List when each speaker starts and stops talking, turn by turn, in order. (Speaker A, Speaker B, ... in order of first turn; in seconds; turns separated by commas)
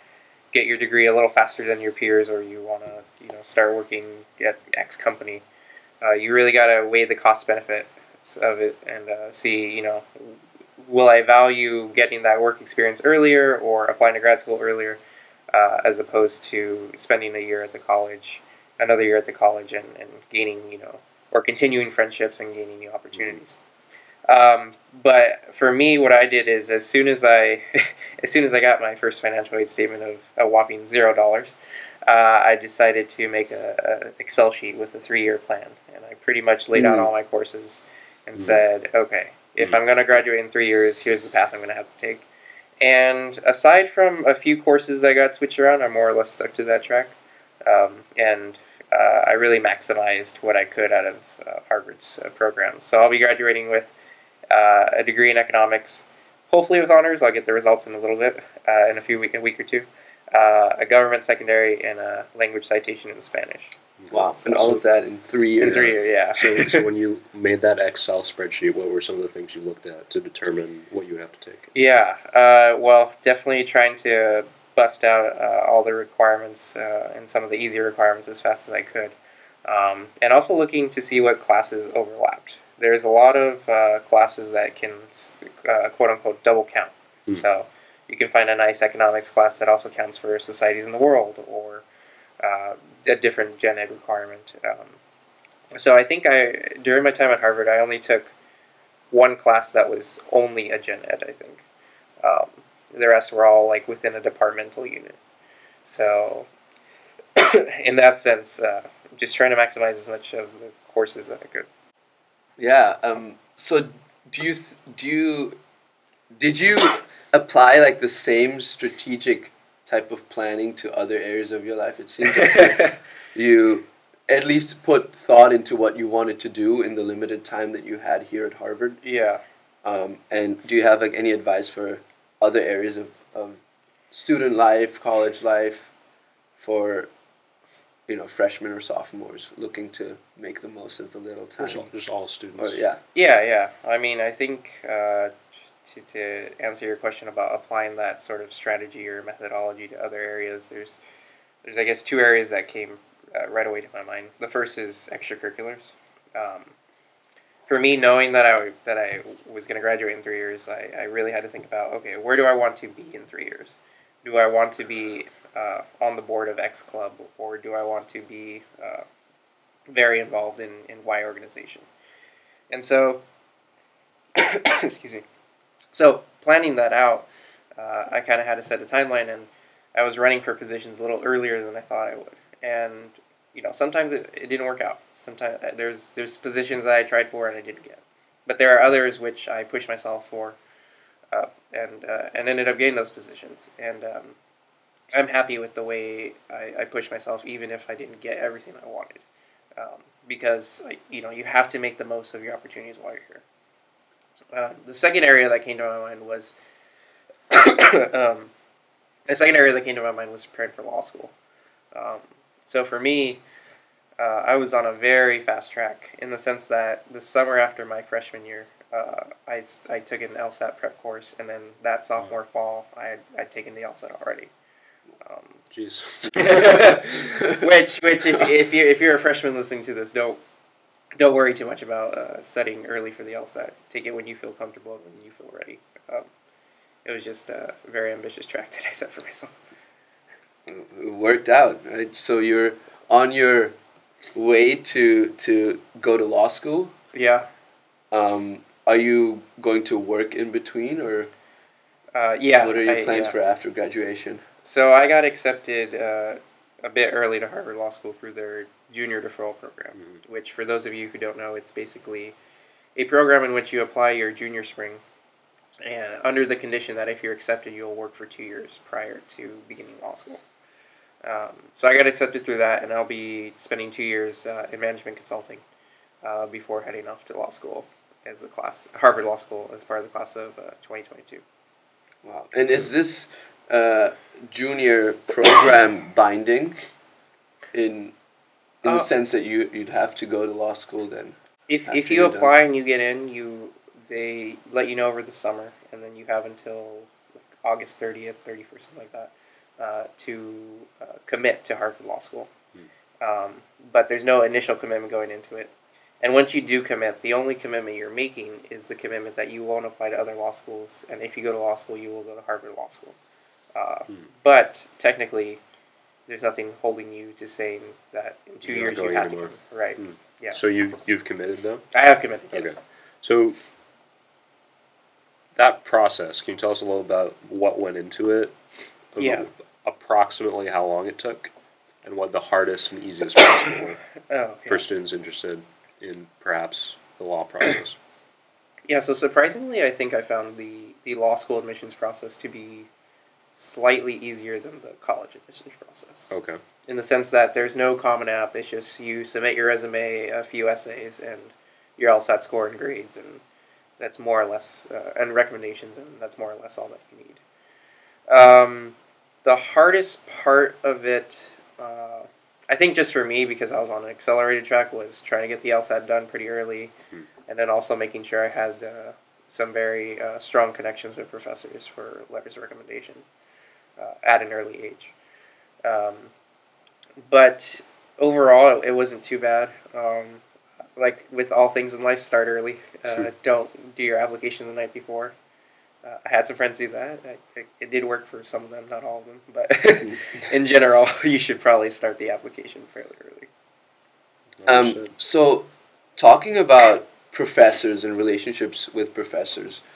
Speaker A: 0.5-5.4, Speaker A: 6.0-15.0, Speaker A: 15.5-23.6, Speaker B: 23.1-23.4, Speaker A: 24.3-42.2, Speaker C: 36.7-37.1, Speaker B: 38.4-38.6, Speaker A: 42.8-53.9, Speaker A: 54.5-64.8, Speaker C: 64.1-65.9, Speaker A: 65.6-66.8, Speaker B: 65.6-71.7, Speaker A: 71.7-91.8, Speaker A: 92.4-95.0, Speaker A: 95.7-98.3, Speaker A: 99.1-101.6, Speaker A: 102.2-105.2, Speaker A: 105.8-106.5, Speaker A: 107.3-111.7, Speaker C: 112.6-115.6, Speaker C: 116.3-129.0, Speaker A: 122.3-123.0, Speaker A: 129.0-129.4, Speaker C: 129.8-133.6, Speaker C: 134.1-135.9, Speaker C: 136.6-137.1, Speaker C: 138.1-141.9, Speaker B: 141.6-142.8, Speaker C: 142.6-143.0, Speaker A: 143.1-151.0, Speaker A: 151.6-156.7, Speaker A: 157.7-169.1, Speaker A: 169.9-171.9, Speaker A: 172.7-173.2, Speaker A: 174.3-175.2, Speaker A: 175.9-190.6, Speaker A: 191.3-194.4, Speaker A: 195.1-199.2, Speaker A: 199.8-203.4, Speaker A: 204.5-206.5, Speaker A: 207.5-208.5, Speaker A: 209.3-211.3, Speaker A: 211.9-213.4, Speaker A: 214.2-224.5, Speaker A: 225.2-225.6, Speaker B: 225.7-227.0, Speaker A: 226.3-230.4, Speaker C: 227.3-227.6, Speaker A: 231.2-236.3, Speaker A: 237.0-239.5, Speaker C: 240.7-243.8, Speaker C: 244.3-246.9, Speaker A: 247.1-247.5, Speaker C: 248.1-251.3, Speaker A: 252.1-253.3, Speaker C: 252.6-254.4, Speaker A: 254.6-262.3, Speaker B: 259.9-260.2, Speaker A: 262.9-265.0, Speaker A: 265.8-270.4, Speaker A: 271.2-275.6, Speaker A: 276.2-281.4, Speaker C: 282.2-286.8, Speaker C: 287.7-288.1, Speaker C: 288.8-291.4, Speaker A: 291.7-302.5, Speaker C: 291.9-292.5, Speaker A: 303.2-313.1, Speaker A: 313.7-315.6, Speaker A: 316.3-320.6, Speaker B: 318.6-321.9, Speaker A: 321.9-322.7, Speaker B: 322.5-323.6, Speaker B: 325.5-328.5, Speaker B: 329.1-331.5, Speaker A: 329.2-329.5, Speaker B: 332.0-334.0, Speaker A: 334.3-334.8, Speaker B: 334.7-338.0, Speaker A: 338.9-342.9, Speaker A: 343.5-346.3, Speaker B: 346.3-346.6, Speaker A: 346.9-353.4, Speaker A: 354.0-357.4, Speaker A: 358.3-366.9, Speaker A: 367.5-373.2, Speaker A: 374.0-375.1, Speaker A: 375.8-376.3, Speaker A: 377.2-380.4, Speaker A: 381.0-385.3, Speaker A: 386.0-393.5, Speaker B: 394.6-395.1, Speaker C: 394.6-399.8